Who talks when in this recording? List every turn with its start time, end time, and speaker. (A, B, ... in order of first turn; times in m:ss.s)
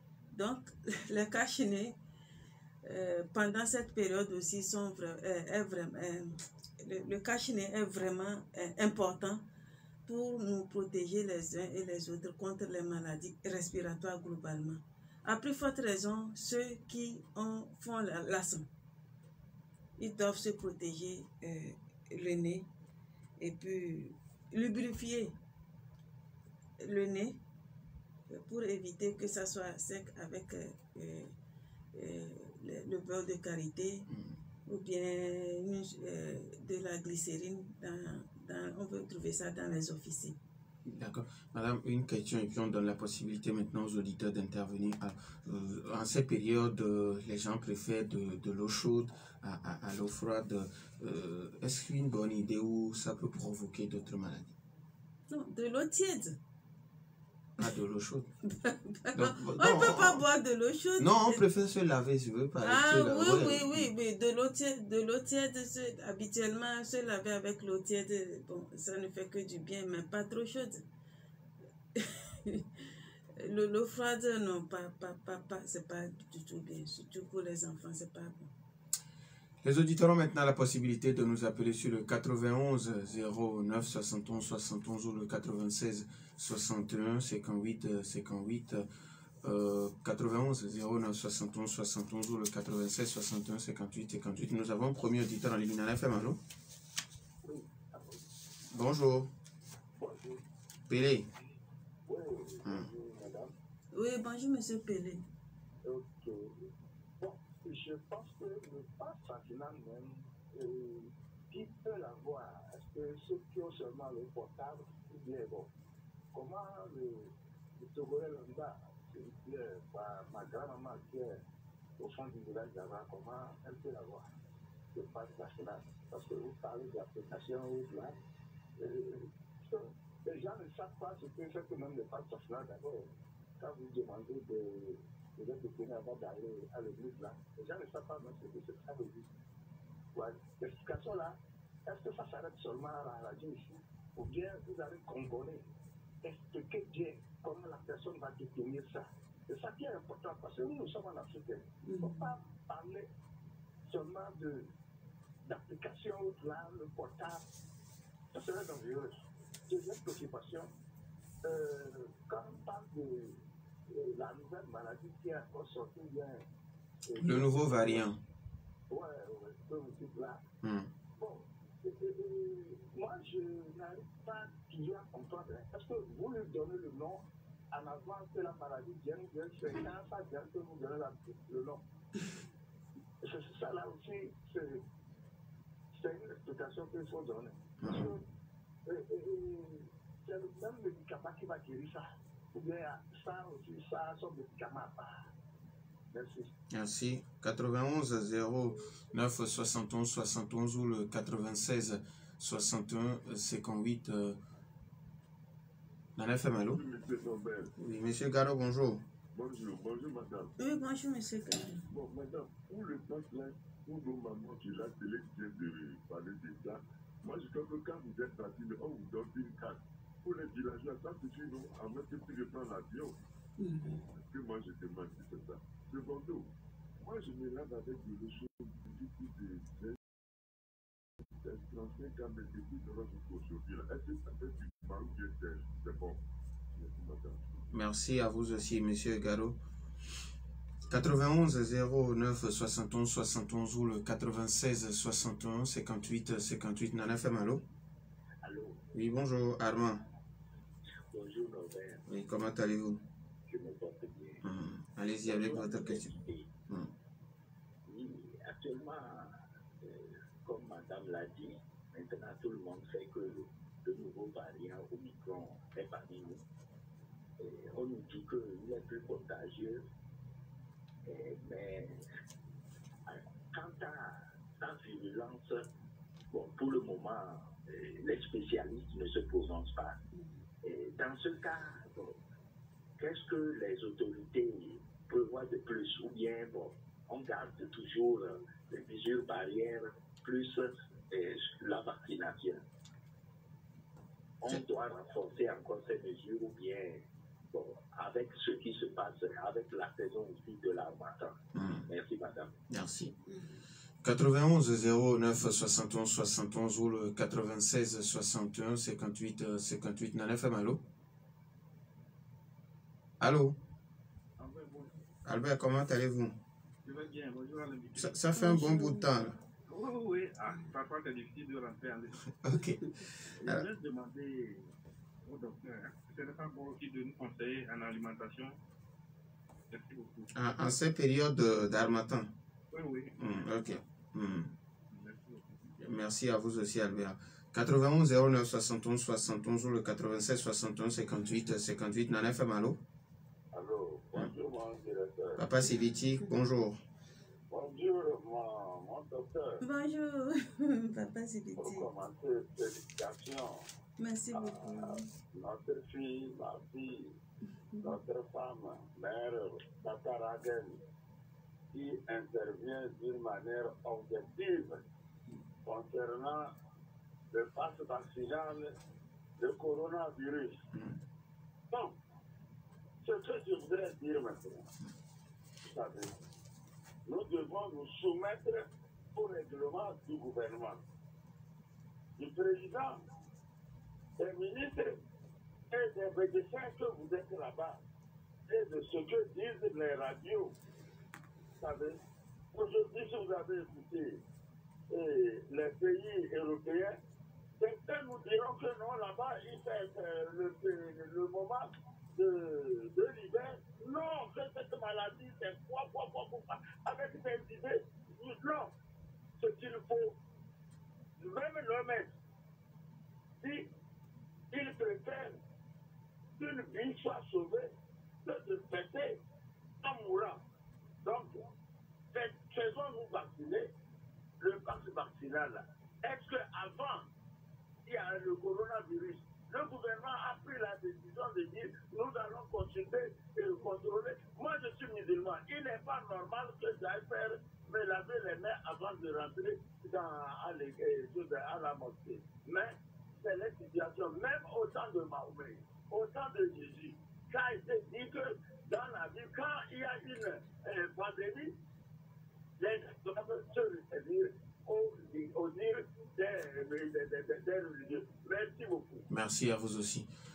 0:00.3-0:02.0 A
0:02.8-0:09.4 A
0:10.1-0:18.7 A
0:20.0-0:22.7 A
0:23.4-0:25.3 A
0:26.8-0:27.4 A
0:28.3-0:31.3 A
0:31.9-0:34.1 A
0:34.1-0:34.4 B
0:34.7-0:40.4 A
0:40.8-0:54.5 B
0:55.3-0:56.4 A
0:57.6-0:58.3 B
0:58.5-1:01.4 A
0:59.1-1:00.2 B
1:01.0-1:03.9 B
1:02.6-1:10.8 A
1:12.0-1:12.7 A
1:13.4-1:18.5 A
1:19.6-1:28.9 B
1:29.4-1:36.4 B
1:37.4-1:38.2 C
1:38.7-1:39.3 B
1:40.0-1:40.4 C
1:40.9-1:41.3 B
1:42.1-1:43.5 C
1:43.9-1:45.2 A
1:45.8-1:46.6 C
1:47.2-1:55.7 C
1:56.3-2:01.4 C
2:02.0-2:04.2 C
2:04.9-2:08.2 C
2:08.8-2:19.3 C
2:20.1-2:25.6 C
2:26.2-2:33.1 C
2:31.8-2:32.3 A
2:33.9-2:34.7 C
2:35.5-2:37.4 C
2:38.3-2:40.7 C
2:41.4-2:43.4 C
2:43.9-2:46.4 C
2:47.0-2:48.1 C
2:47.2-2:48.2 B
2:48.9-2:50.4 C
2:50.6-2:50.9 B
2:51.2-3:01.8 C
3:03.2-3:04.8 C
3:05.9-3:08.2 C
3:07.8-3:08.1 B
3:08.9-3:15.3 C
3:16.1-3:16.5 C
3:16.7-3:24.4 B
3:26.2-3:26.8 B
3:26.7-3:27.7 D
3:27.8-3:29.0 B
3:29.3-3:30.5 D
3:30.6-3:31.8 A
3:31.9-3:43.2 D
3:43.6-3:44.0 A
3:44.1-3:46.5 D
3:47.0-3:50.0 D
3:51.4-3:57.6 D
3:57.7-3:59.6 B
4:00.9-4:07.6 B
4:08.4-4:08.9 C
4:08.9-4:10.0 B
4:11.1-4:12.0 C
4:12.1-4:13.0 B
4:13.5-4:14.4 C
4:14.4-4:16.1 B
4:15.2-4:16.5 C
4:17.9-4:26.4 C
4:27.4-4:29.8 C
4:31.0-4:32.0 C
4:33.1-4:35.7 C
4:36.3-4:40.0 C
4:40.6-4:42.2 C
4:43.0-4:52.6 C
4:54.4-5:02.6 C
5:01.5-5:01.9 B
5:02.7-5:03.2 B
5:04.0-5:10.8 B
5:13.2-5:13.6 B
5:14.4-5:15.0 E
5:15.2-5:16.4 B
5:16.8-5:18.2 E
5:18.0-5:19.4 B
5:18.3-5:19.1 A
5:19.6-5:22.4 E
5:22.4-5:22.9 B
5:23.4-5:24.5 E
5:24.0-5:24.3 C
5:25.2-5:28.6 E
5:29.7-5:30.3 E
5:30.3-5:32.3 B
5:32.7-5:33.5 E
5:33.2-5:34.5 B
5:34.9-5:35.8 E
5:35.8-5:42.8 B
5:43.5-5:45.5 C
5:45.4-5:46.8 B
5:47.5-5:49.6 C
5:49.6-5:51.9 A
5:51.6-5:53.6 C
5:54.0-5:55.1 A
5:54.3-5:57.1 C
5:57.8-6:00.8 C
6:01.7-6:04.8 C
6:05.6-6:06.5 C
6:07.3-6:08.7 C
6:09.4-6:10.6 C
6:10.7-6:11.0 B
6:13.0-6:14.7 C
6:15.6-6:16.1 C
6:17.1-6:20.8 C
6:22.2-6:23.0 C
6:24.2-6:25.0 C
6:25.7-6:27.8 C
6:28.5-6:30.6 C
6:31.6-6:32.0 C
6:32.5-6:34.2 C
6:34.9-6:37.0 C
6:37.6-6:48.7 C
6:49.4-6:50.2 C
6:51.2-6:52.1 C
6:54.5-6:55.4 C
6:56.4-6:57.7 C
6:58.2-6:59.2 C
6:59.8-7:00.4 C
7:01.0-7:01.4 C
7:02.1-7:03.7 C
7:04.4-7:07.1 C
7:07.9-7:31.5 C
7:32.6-7:39.1 C
7:39.1-7:40.1 B